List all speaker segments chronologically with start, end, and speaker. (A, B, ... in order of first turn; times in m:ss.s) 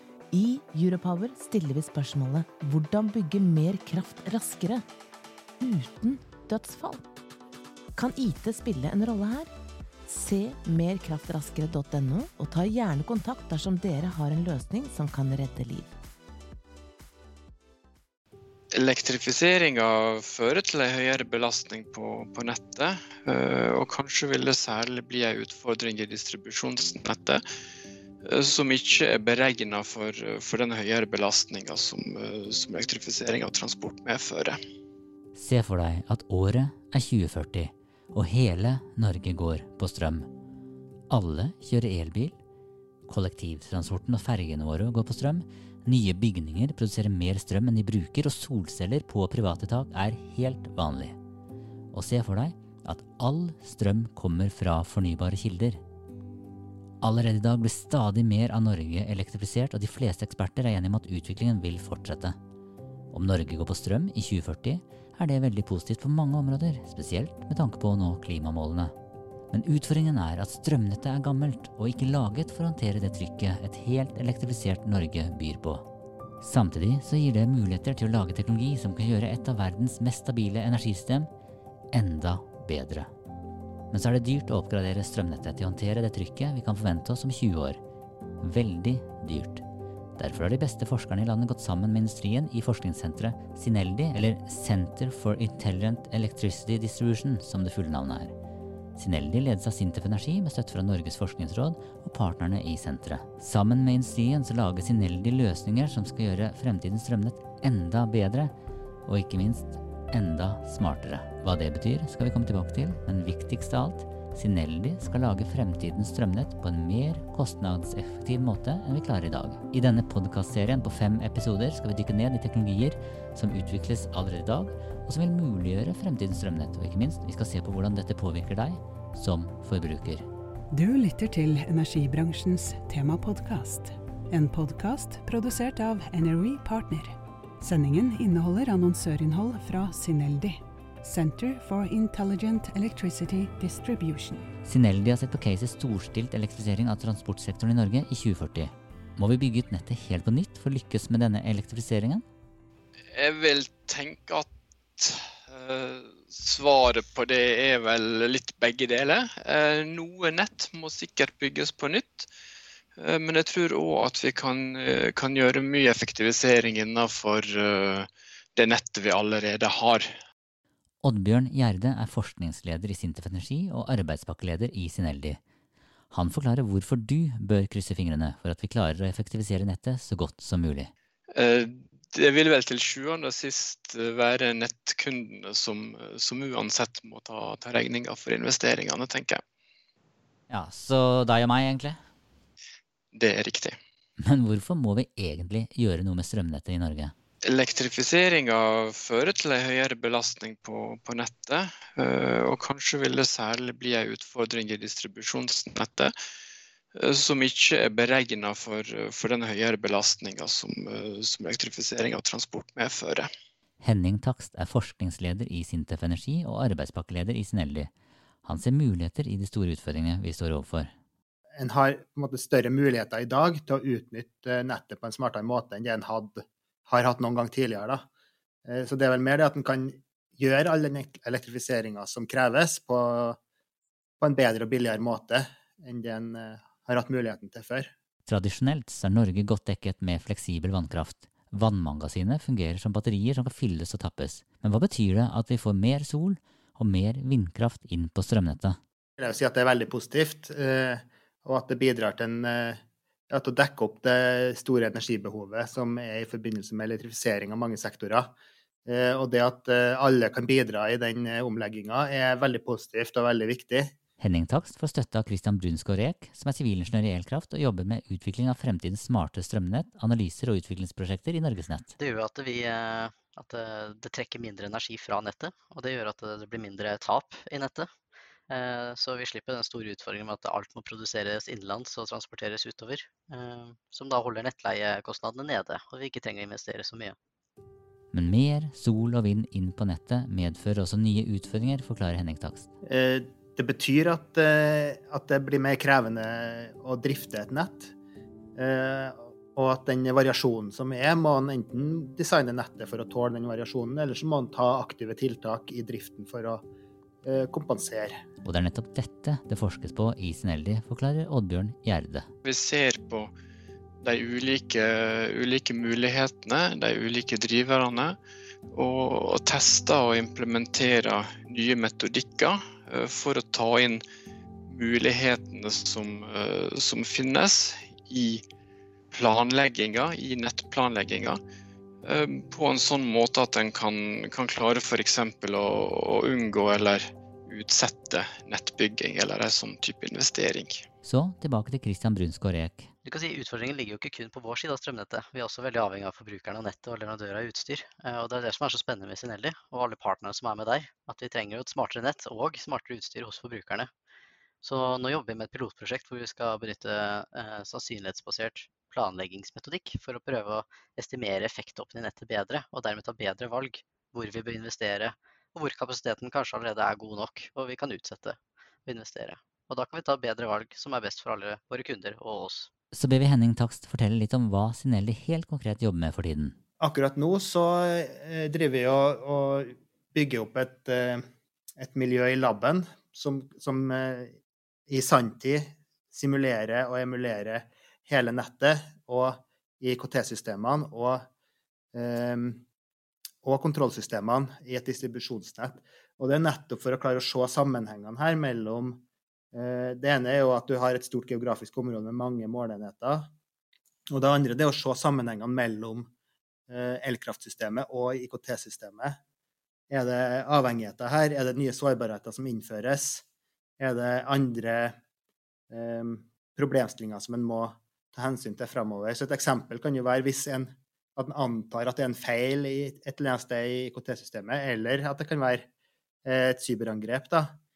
0:00.3-0:04.8 A
0:05.6-0:07.0 A
0:08.0-0:09.5 A
0:10.1-0:15.9 A
0:18.7-0:27.4 B
0:28.3-0:34.6 B
0:35.3-0:40.3 C
0:41.1-0:42.4 C
0:43.1-0:51.2 C
0:51.9-0:55.8 C
0:57.0-1:02.4 C
1:03.1-1:08.9 C
1:09.5-1:15.8 C
1:16.4-1:21.3 C
1:21.9-1:23.1 C
1:23.9-1:27.8 C
1:28.4-1:29.6 C
1:30.2-1:38.3 C
1:39.0-1:48.5 C
1:49.0-2:10.2 C
2:10.7-2:24.5 D
2:24.6-2:32.2 C
2:33.1-2:42.3 B
2:43.0-2:50.0 B
2:51.0-2:55.4 C
2:56.1-3:00.9 C
3:01.3-3:09.4 B
3:10.5-3:12.0 C
3:13.1-3:13.8 B
3:14.2-3:17.1 C
3:17.4-3:26.1 B
3:27.0-3:33.3 B
3:33.8-3:37.9 C
3:38.4-3:40.9 C
3:41.6-3:48.1 E
3:48.7-3:53.4 E
3:54.2-3:57.9 E
3:58.2-4:08.8 C
4:09.2-4:12.8 E
4:13.3-4:18.3 E
4:18.9-4:23.9 E
4:24.2-4:31.9 C
4:32.0-4:37.9 F
4:38.5-4:47.2 F
4:48.1-4:52.7 C
4:52.8-4:57.9 E
4:58.6-5:06.6 E
5:07.2-5:08.2 E
5:08.4-5:12.3 C
5:12.4-5:13.3 B
5:14.0-5:18.2 B
5:18.7-5:24.0 B
5:24.7-5:28.4 B
5:29.1-5:31.4 B
5:32.0-5:40.8 B
5:41.0-5:42.9 C
5:43.0-5:53.9 F
5:54.6-6:12.7 F
6:12.9-6:16.6 C
6:16.8-6:21.2 E
6:21.8-6:24.4 E
6:24.9-6:31.3 E
6:31.9-6:32.6 E
6:33.4-6:43.3 E
6:44.1-6:46.1 E
6:46.7-6:49.2 E
6:49.9-6:53.2 E
6:53.8-6:54.9 E
6:55.7-7:05.7 E
7:06.2-7:07.5 E